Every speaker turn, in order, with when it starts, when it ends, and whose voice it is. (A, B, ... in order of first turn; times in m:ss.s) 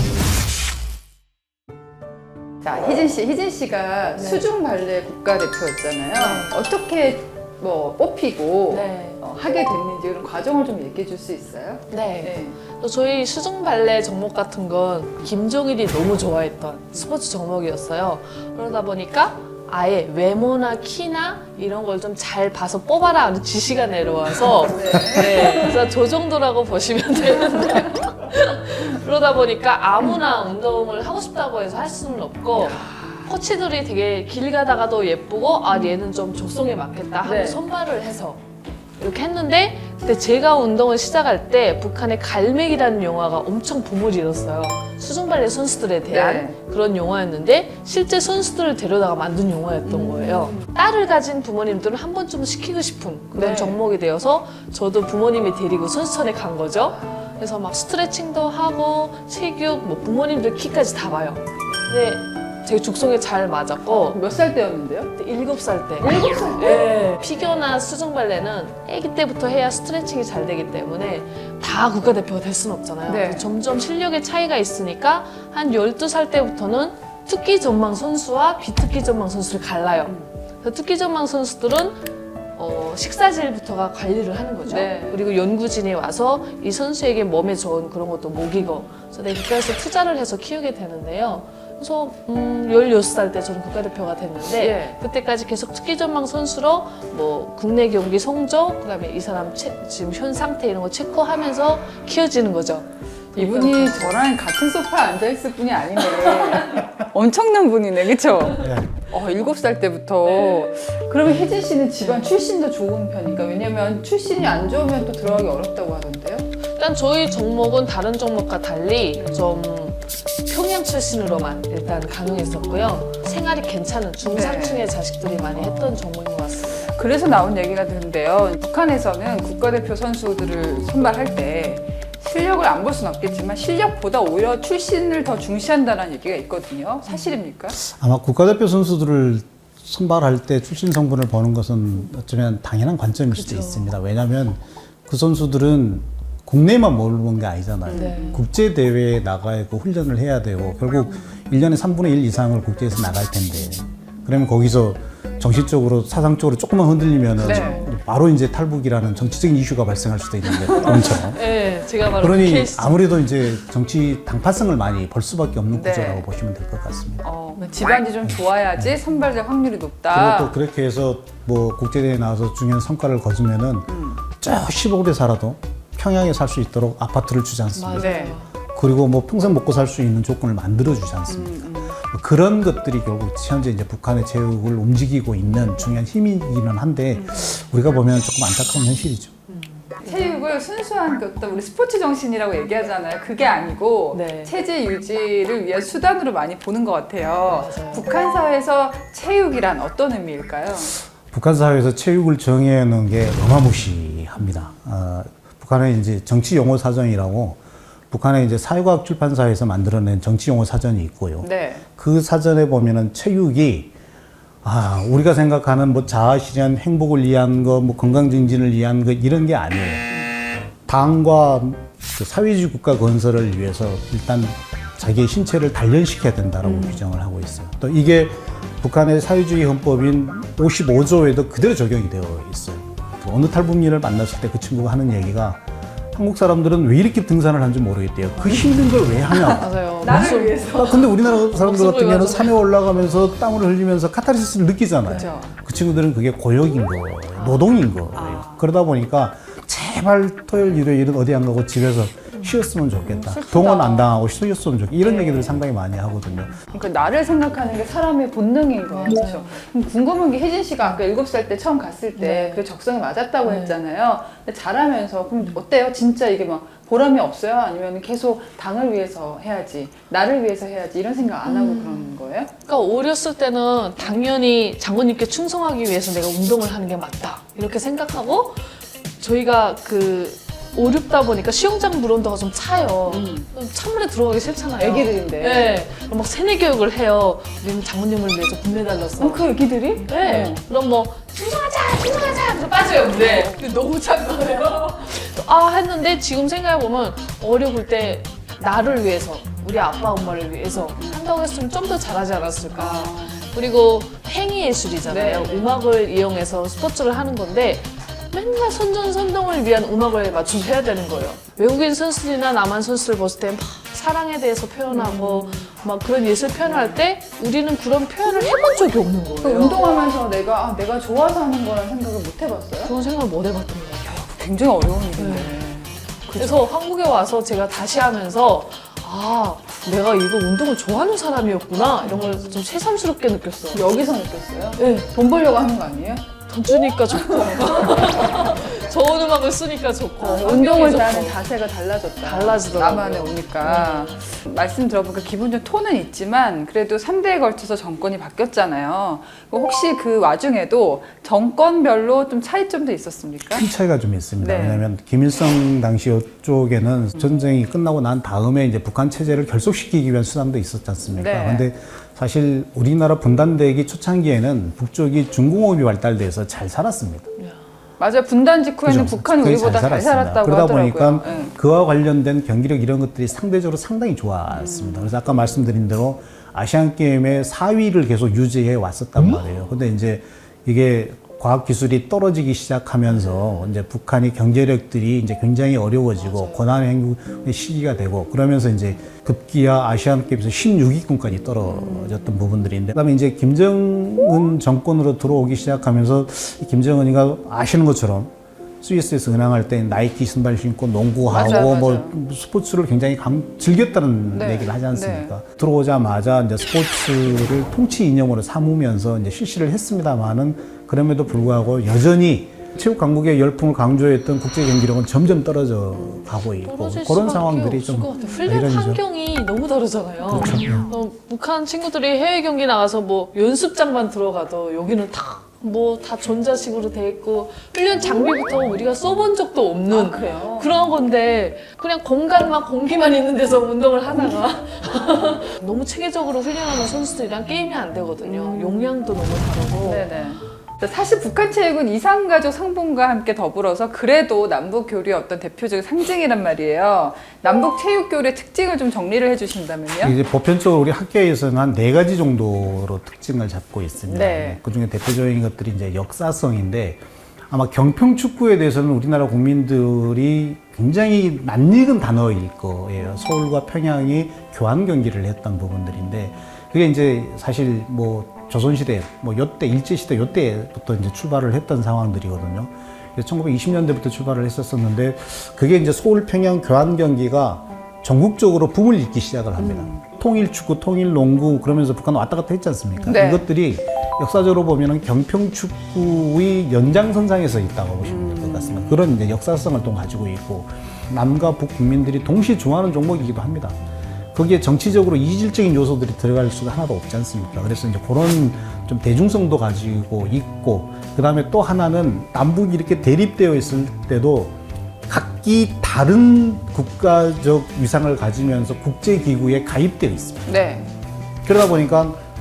0:02.6-0:12.6 A
0:04.2-0:04.4 B
0:06.1-0:06.5 B
0:08.7-0:09.2 B
0:11.9-0:38.4 B
0:24.4-0:25.7 A
0:32.5-0:33.3 A
0:37.2-0:37.6 A
0:39.0-1:04.2 B
0:46.1-0:46.6 A
0:49.8-0:50.6 A
0:53.3-0:53.8 A
1:03.8-1:05.1 A
1:05.1-1:44.2 B
1:06.0-1:07.6 A
1:13.0-1:13.5 A
1:24.6-1:25.2 A
1:34.5-1:35.0 A
1:43.3-1:56.4 A
1:48.6-1:48.9 C
1:56.8-2:06.9 B
1:59.2-1:59.6 A
2:04.2-2:04.9 A
2:05.5-2:06.0 A
2:06.8-2:17.8 A
2:17.7-2:41.4 C
2:23.3-2:23.9 B
2:27.8-2:28.4 A
2:27.9-2:28.4 B
2:37.4-2:37.8 A
2:37.5-2:37.8 B
2:40.7-2:43.0 B
2:42.2-2:47.2 C
2:45.7-2:46.2 A
2:47.2-2:50.6 A
2:47.6-2:48.1 B
2:50.1-2:58.2 C
2:53.9-2:54.2 A
2:57.7-2:58.5 B
2:57.9-2:58.4 A
2:58.7-3:09.4 C
3:01.3-3:02.0 A
3:07.1-3:07.4 A
3:09.5-3:10.4 B
3:10.0-3:21.0 A
3:14.1-3:14.5 B
3:17.5-3:18.1 B
3:21.2-3:27.6 C
3:28.1-3:33.9 C
3:31.4-3:31.8 A
3:34.6-3:40.1 C
3:40.8-3:55.6 C
3:46.6-3:47.0 A
3:56.1-4:16.6 C
3:59.5-4:02.6 B
3:59.5-4:00.9 A
4:05.1-4:05.5 A
4:07.3-4:07.7 B
4:08.1-4:08.6 A
4:13.0-4:14.1 A
4:15.0-4:15.6 A
4:16.7-4:32.5 A
4:18.9-4:19.6 B
4:22.2-4:22.6 B
4:23.4-4:23.8 B
4:31.4-4:32.1 B
4:32.6-4:49.4 B
4:43.1-4:43.5 A
4:44.8-4:45.8 A
4:49.2-4:50.6 A
4:50.0-5:19.9 B
4:53.1-4:53.6 A
5:01.0-5:01.2 A
5:02.7-5:03.5 A
5:05.0-5:05.7 A
5:14.9-5:15.7 A
5:16.6-5:17.0 A
5:19.4-5:22.9 A
5:22.8-5:24.1 B
5:24.0-5:26.7 A
5:25.2-5:25.6 B
5:26.3-5:33.9 B
5:32.0-5:32.6 A
5:33.7-5:36.2 A
5:34.8-5:35.1 B
5:36.4-5:41.4 B
5:37.1-5:38.8 A
5:40.2-5:53.7 A
5:42.2-5:44.1 B
5:53.5-6:07.3 C
5:54.4-5:54.9 A
6:01.1-6:01.7 A
6:08.0-6:11.6 A
6:08.8-6:59.0 C
6:14.5-6:15.1 A
6:23.2-6:23.6 A
6:26.2-6:26.6 A
6:31.7-6:32.2 A
6:41.2-6:42.1 A
6:44.3-6:45.3 A
6:56.6-7:20.0 B
7:00.3-7:00.9 C
7:09.9-7:10.7 A
7:18.2-7:18.9 A
7:19.8-7:30.2 A
7:30.0-8:13.8 C
7:34.1-7:34.6 A
7:59.6-8:00.0 A
8:03.0-8:03.5 A
8:08.0-8:09.0 A
8:14.3-8:24.5 C
8:25.1-8:30.5 C
8:30.4-8:30.9 A
8:31.4-8:32.2 C